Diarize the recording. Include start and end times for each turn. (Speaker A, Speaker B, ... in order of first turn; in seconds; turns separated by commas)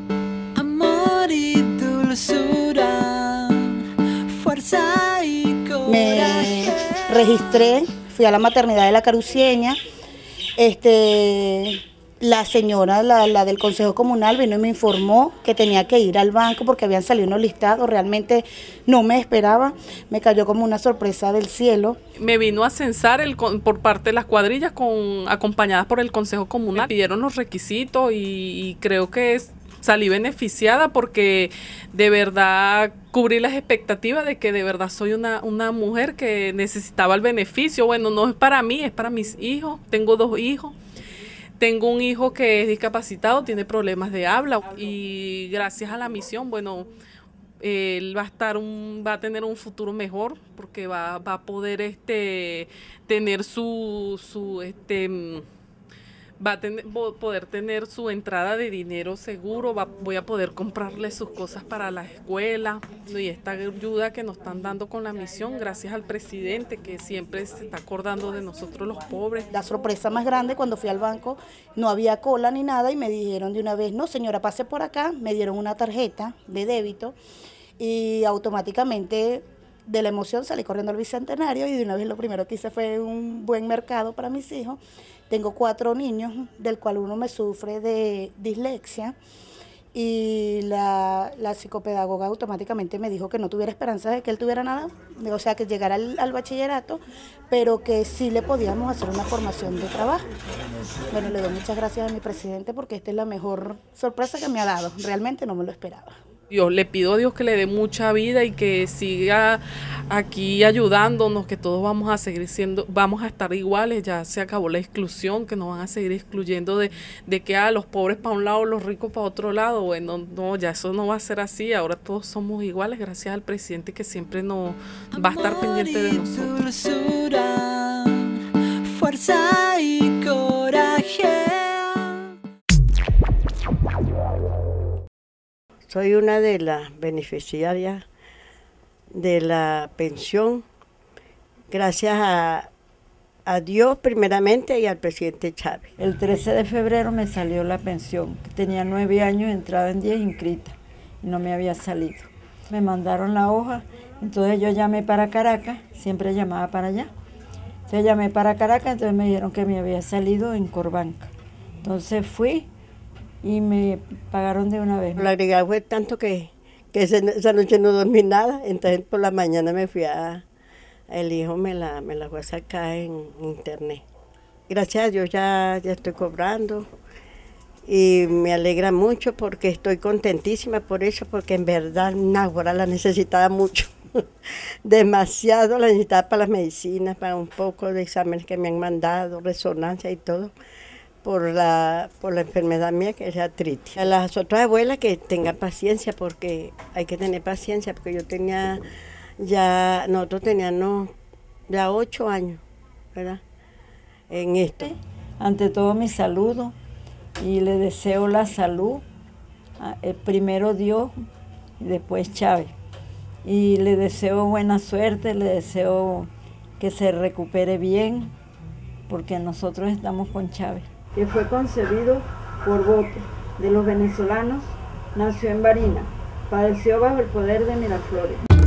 Speaker A: 0.5-7.2, Speaker B: 5.8-9.8, Speaker B: 10.6-22.0, Speaker C: 22.2-40.7, Speaker C: 41.6-46.9, Speaker C: 47.6-55.4, Speaker C: 56.4-69.5, Speaker B: 69.5-77.2, Speaker B: 77.8-84.8, Speaker B: 85.3-89.2, Speaker B: 89.9-100.2, Speaker B: 101.1-106.1, Speaker C: 106.5-126.6, Speaker A: 125.2-132.3, Speaker D: 135.9-138.0, Speaker D: 139.2-140.6, Speaker D: 141.7-142.7, Speaker D: 143.5-145.8, Speaker E: 146.0-157.1, Speaker E: 157.9-161.3, Speaker E: 161.8-162.7, Speaker E: 163.4-165.3, Speaker D: 165.2-170.4, Speaker D: 171.1-174.0, Speaker D: 174.7-176.8, Speaker D: 177.9-183.9, Speaker D: 184.8-190.5, Speaker D: 191.2-198.8, Speaker D: 199.4-201.1, Speaker D: 201.7-202.6, Speaker D: 203.2-203.4, Speaker D: 204.3-204.8, Speaker E: 204.8-206.7, Speaker E: 207.4-209.0, Speaker E: 209.8-211.2, Speaker E: 211.8-212.7, Speaker E: 213.4-218.3, Speaker E: 219.1-228.4